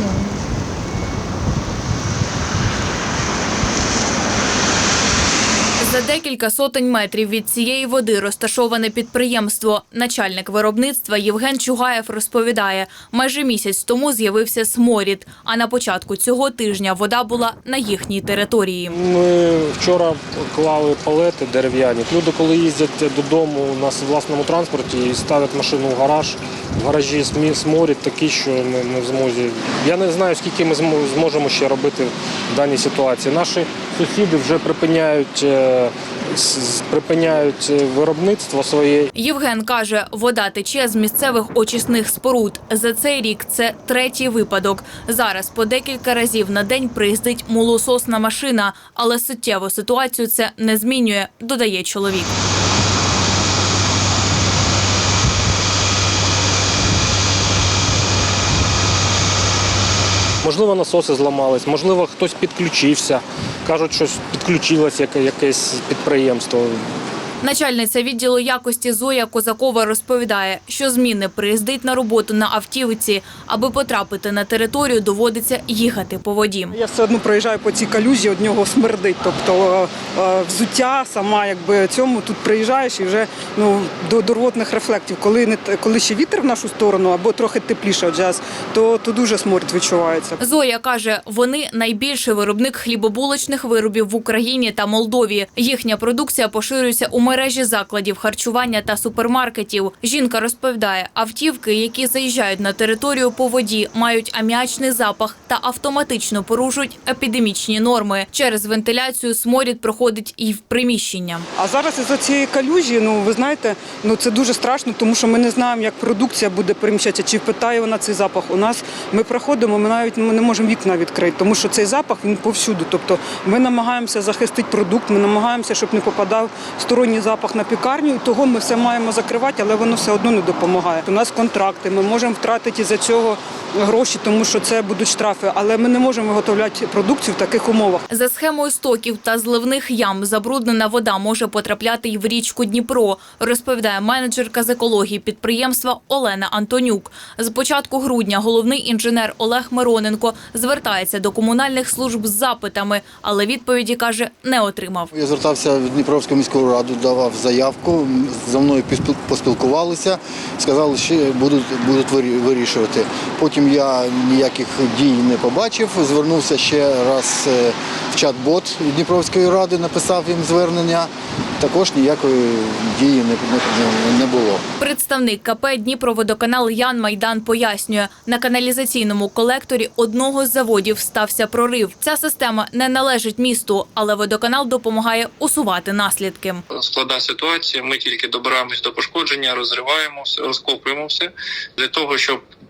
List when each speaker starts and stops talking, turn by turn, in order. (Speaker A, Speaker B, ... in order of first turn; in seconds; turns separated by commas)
Speaker A: 5.8-19.0, Speaker B: 18.9-39.1, Speaker A: 39.1-52.3, Speaker B: 60.4-66.8, Speaker A: 67.4-76.7, Speaker C: 76.7-90.4, Speaker A: 90.4-111.5, Speaker C: 111.6-138.0, Speaker A: 138.1-155.1, Speaker D: 155.1-174.6, Speaker A: 174.8-186.6, Speaker E: 186.7-192.4